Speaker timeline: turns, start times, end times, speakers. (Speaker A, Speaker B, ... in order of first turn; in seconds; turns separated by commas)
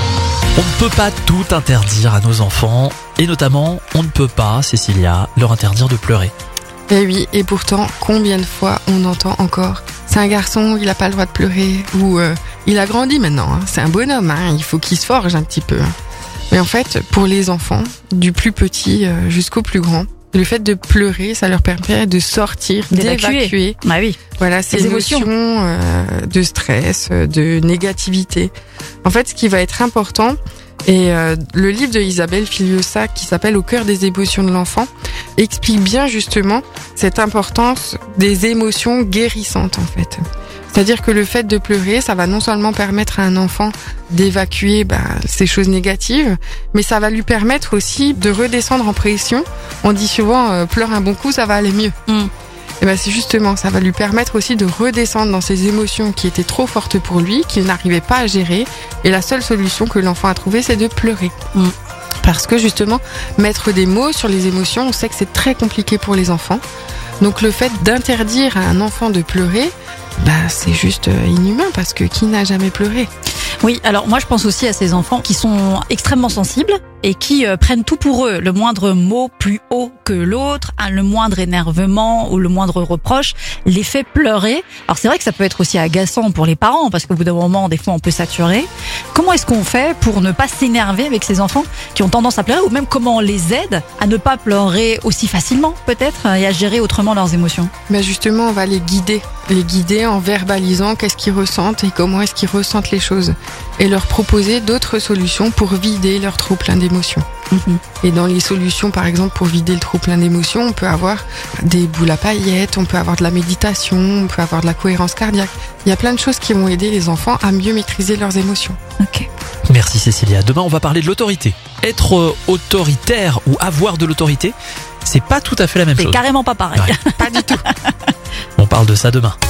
Speaker A: 0.6-6.3, Speaker B: 6.9-15.9, Speaker B: 16.5-23.8, Speaker C: 22.9-24.2, Speaker B: 24.4-28.5, Speaker C: 24.7-25.3, Speaker B: 29.0-52.0, Speaker B: 52.8-61.4, Speaker B: 62.2-66.6, Speaker B: 67.2-73.1, Speaker C: 73.6-97.7, Speaker B: 97.9-107.2, Speaker C: 107.5-107.8, Speaker B: 108.0-118.8, Speaker C: 119.0-119.3, Speaker A: 119.7-126.2, Speaker C: 126.0-127.9, Speaker B: 127.2-127.7, Speaker A: 128.6-129.3